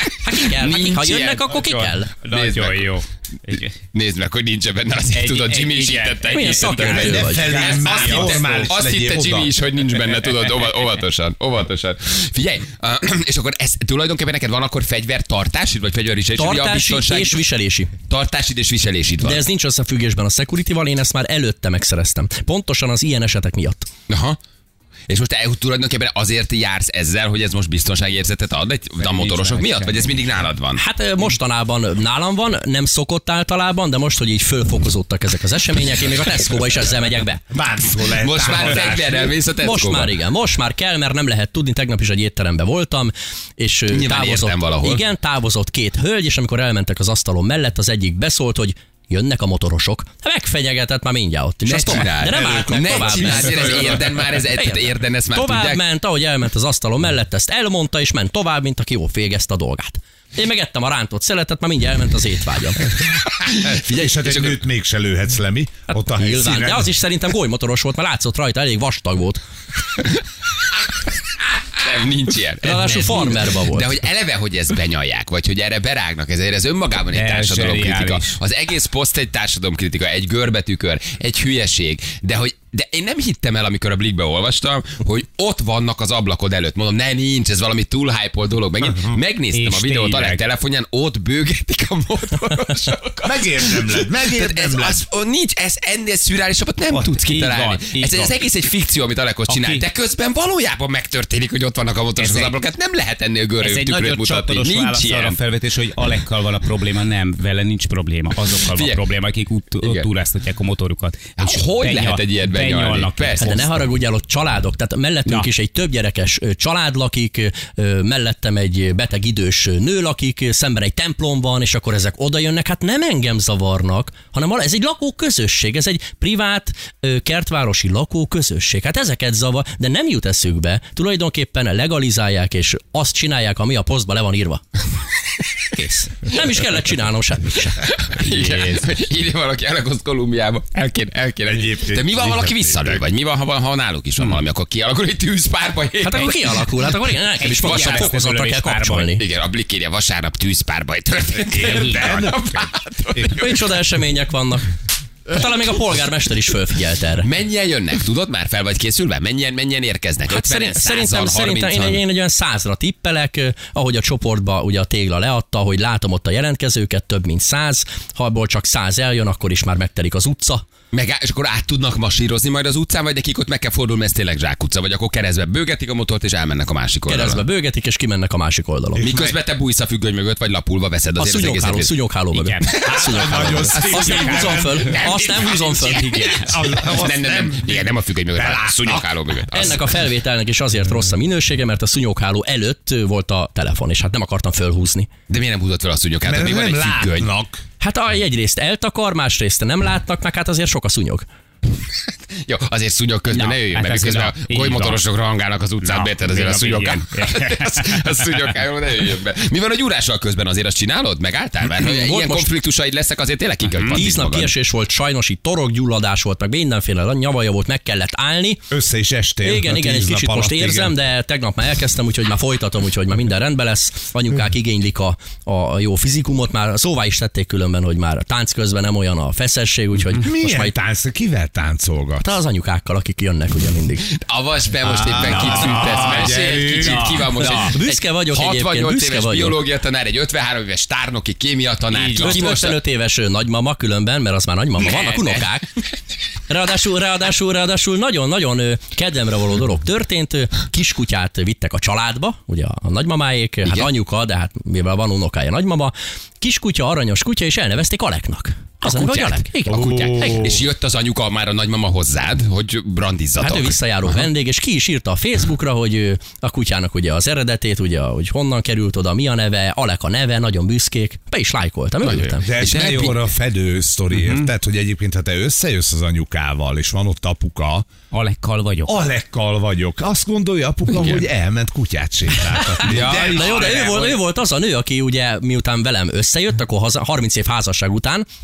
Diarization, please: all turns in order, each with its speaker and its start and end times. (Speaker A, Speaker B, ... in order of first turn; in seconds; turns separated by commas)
Speaker A: 0.2-2.1, Speaker B: 0.3-1.6, Speaker C: 1.5-3.7, Speaker B: 2.3-2.9, Speaker B: 3.9-17.4, Speaker C: 5.1-8.7, Speaker A: 6.3-7.5, Speaker D: 7.0-9.5, Speaker A: 16.4-17.9, Speaker B: 18.1-19.4, Speaker A: 19.2-23.9, Speaker B: 24.1-24.4, Speaker B: 25.1-30.8, Speaker C: 29.0-30.1, Speaker A: 30.8-37.4, Speaker D: 37.5-39.4, Speaker B: 38.2-40.1, Speaker A: 39.6-53.9, Speaker B: 43.9-45.0, Speaker B: 51.6-55.8, Speaker D: 52.2-54.2, Speaker A: 54.5-62.9, Speaker B: 63.3-64.6, Speaker D: 63.6-66.9, Speaker A: 65.9-69.4, Speaker B: 71.7-105.4, Speaker A: 72.6-74.0, Speaker C: 77.1-78.4, Speaker C: 89.5-90.4, Speaker D: 93.2-95.0, Speaker C: 96.9-98.3, Speaker C: 99.5-99.8, Speaker C: 102.2-102.6, Speaker C: 103.6-113.7, Speaker B: 108.7-109.0, Speaker B: 111.4-113.6, Speaker A: 113.4-134.6, Speaker A: 135.7-137.9, Speaker B: 137.8-146.7, Speaker C: 138.2-138.8, Speaker D: 141.4-143.0, Speaker A: 146.0-149.2, Speaker C: 147.4-149.2, Speaker B: 147.4-148.1, Speaker B: 149.2-153.7, Speaker D: 151.5-152.6, Speaker C: 151.7-152.2, Speaker A: 153.3-154.7, Speaker A: 155.2-157.3, Speaker B: 157.2-162.0, Speaker A: 160.3-170.6, Speaker B: 170.9-177.4, Speaker A: 177.1-179.1, Speaker D: 178.9-179.3, Speaker B: 179.0-181.9, Speaker A: 181.2-186.6, Speaker C: 182.3-183.3, Speaker D: 182.8-185.0, Speaker B: 183.7-189.9, Speaker C: 183.9-184.6, Speaker D: 186.3-189.2, Speaker A: 189.5-195.1, Speaker B: 195.3-197.3, Speaker D: 196.2-197.6, Speaker A: 197.8-201.2, Speaker B: 202.4-214.5, Speaker C: 203.3-205.0, Speaker C: 205.8-208.5, Speaker A: 211.7-212.5, Speaker C: 213.7-214.0, Speaker A: 213.9-218.7, Speaker D: 218.7-220.9, Speaker A: 219.4-230.8, Speaker D: 230.2-232.2, Speaker A: 232.2-234.1, Speaker B: 234.1-242.8, Speaker D: 234.8-237.3, Speaker C: 235.1-237.8, Speaker A: 237.6-239.6, Speaker C: 241.9-242.4, Speaker A: 242.0-245.7, Speaker B: 244.8-245.4, Speaker A: 246.5-260.5, Speaker B: 258.8-264.3, Speaker D: 259.7-260.6, Speaker A: 263.4-272.5, Speaker B: 272.0-273.2, Speaker D: 272.4-277.9, Speaker C: 272.6-273.1, Speaker C: 274.1-274.5, Speaker C: 278.1-279.0, Speaker D: 278.9-283.7, Speaker B: 280.9-281.2, Speaker C: 282.7-284.1, Speaker A: 283.1-288.2, Speaker B: 283.2-283.8